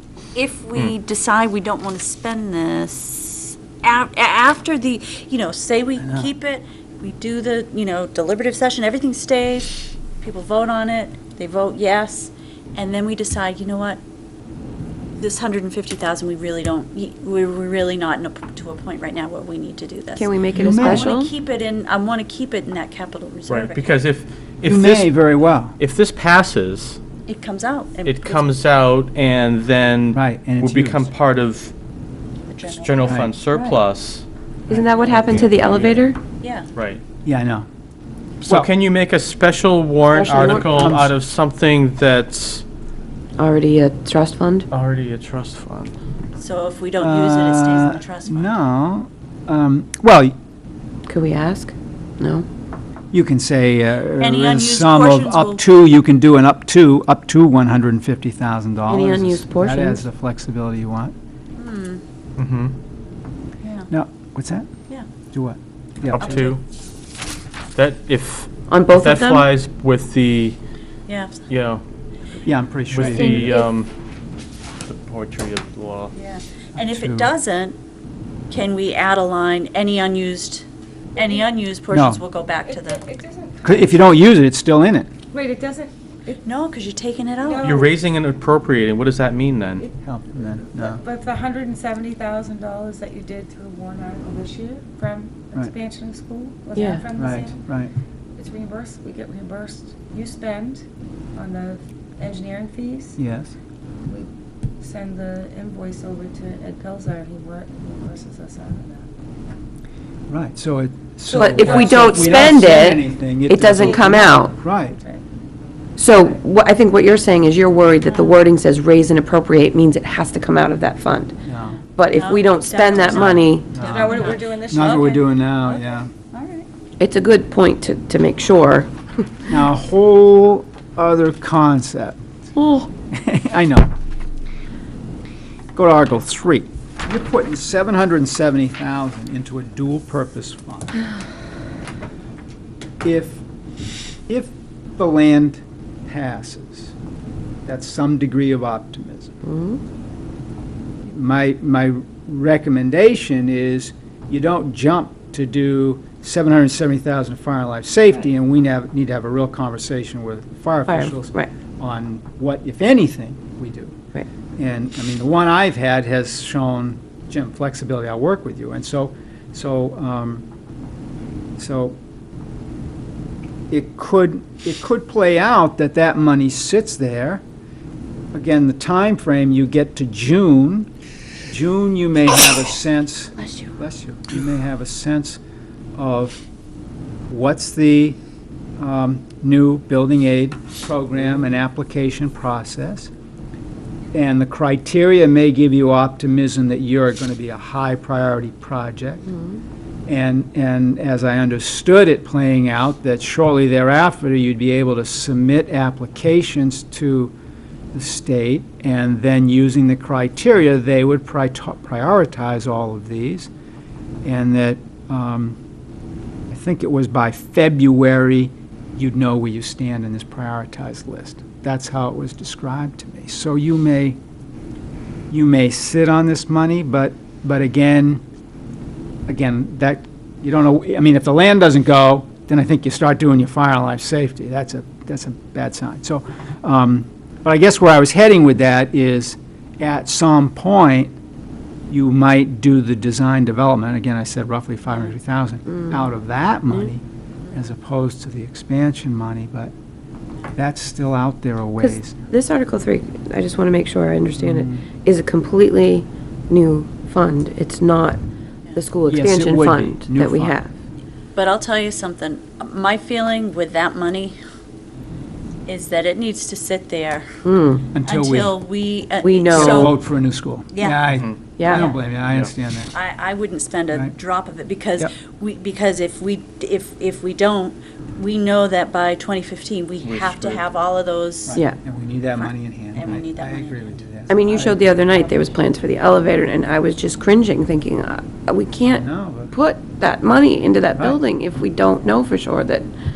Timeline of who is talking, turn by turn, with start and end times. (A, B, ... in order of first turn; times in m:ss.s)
0:00.3-0:14.0 A
0:06.0-0:06.3 B
0:15.2-0:23.9 A
0:20.2-0:21.3 C
0:20.6-0:21.1 B
0:23.5-0:25.1 D
0:24.6-0:25.8 B
0:25.8-0:27.0 D
0:27.3-0:28.5 A
0:28.0-0:31.7 D
0:30.1-0:31.1 B
0:32.5-0:33.8 A
0:32.6-0:36.1 D
0:33.0-0:33.3 B
0:34.7-0:36.2 C
0:36.4-0:36.7 A
0:36.7-0:37.0 D
0:37.2-0:37.7 B
0:38.4-0:42.6 D
0:40.1-0:40.9 C
0:40.2-0:41.2 B
0:43.4-0:44.7 C
0:44.7-0:46.0 D
0:46.4-0:48.5 A
0:47.0-0:50.4 B
0:51.1-0:52.5 C
0:53.1-1:01.1 B
0:54.2-0:55.6 A
0:58.9-1:00.0 C
1:01.6-1:02.0 A
1:02.4-1:02.8 D
1:03.6-1:03.9 A
1:03.9-1:04.7 B
1:05.3-1:06.4 B
1:06.1-1:06.6 D
1:06.2-1:06.6 A
1:07.8-1:10.6 D
1:08.7-1:09.5 C
1:11.1-1:11.4 A
1:11.5-1:11.8 D
1:12.4-1:13.5 B
1:12.9-1:13.9 D
1:13.0-1:13.7 C
1:14.8-1:16.1 D
1:16.1-1:17.8 A
1:16.8-1:17.3 B
1:18.5-1:23.0 A
1:21.2-1:21.4 E
1:21.9-1:22.2 B
1:22.6-1:24.1 E
1:23.6-1:25.1 B
1:25.3-1:26.4 E
1:26.4-1:27.8 A
1:27.4-1:28.0 E
1:27.6-1:29.8 D
1:30.0-1:31.0 B
1:30.8-1:37.6 E
1:36.7-1:37.1 C
1:37.2-1:37.9 B
1:38.4-1:43.2 E
1:43.2-1:43.6 B
1:44.1-1:49.1 E
1:50.3-1:55.0 B
1:51.3-1:53.3 E
1:51.3-1:54.5 C
1:53.8-1:55.2 E
1:56.0-2:01.4 C
1:58.0-1:58.4 A
2:01.5-2:01.8 B
2:02.0-2:03.7 C
2:02.1-2:04.5 A
2:03.7-2:06.1 B
2:03.8-2:05.8 E
2:06.3-2:06.7 A
2:07.0-2:09.4 C
2:09.5-2:12.2 B
2:12.6-2:12.9 C
2:13.1-2:13.9 B
2:15.8-2:21.0 B
2:23.0-2:23.4 B
2:24.3-2:26.9 B
2:27.7-2:29.4 B
2:29.4-2:29.8 C
2:31.0-2:44.0 B
2:40.9-2:41.5 C
2:44.6-2:50.4 B
2:51.6-2:52.0 B
2:53.7-2:57.4 B
2:58.3-3:00.9 B
3:01.5-3:05.4 B
3:06.0-3:06.4 B
3:07.3-3:08.2 B
3:08.8-3:13.1 B
3:14.1-3:19.3 B
3:19.4-3:19.6 C
3:20.1-3:27.3 B
3:27.9-3:33.5 B
3:34.2-3:35.6 B
3:36.5-3:44.2 B
3:45.3-3:48.2 B
3:49.3-4:01.1 B
4:01.9-4:09.7 B
4:05.7-4:06.0 C
4:10.6-4:12.2 B
4:11.8-4:18.2 C
4:14.4-4:14.9 B
4:18.8-4:20.7 C
4:19.0-4:20.6 B
4:21.4-4:24.4 A
4:25.7-4:27.3 A
4:27.4-4:27.9 C
4:27.9-4:28.5 B
4:28.0-4:29.9 A
4:29.2-4:29.9 C
4:29.5-4:32.9 B
4:30.7-4:31.0 A
4:31.6-4:31.9 C
4:31.6-4:32.0 A
4:32.9-4:41.6 A
4:40.0-4:40.6 D
4:41.5-4:45.0 B
4:42.4-4:44.0 A
4:44.3-4:52.9 C
4:48.8-4:49.5 B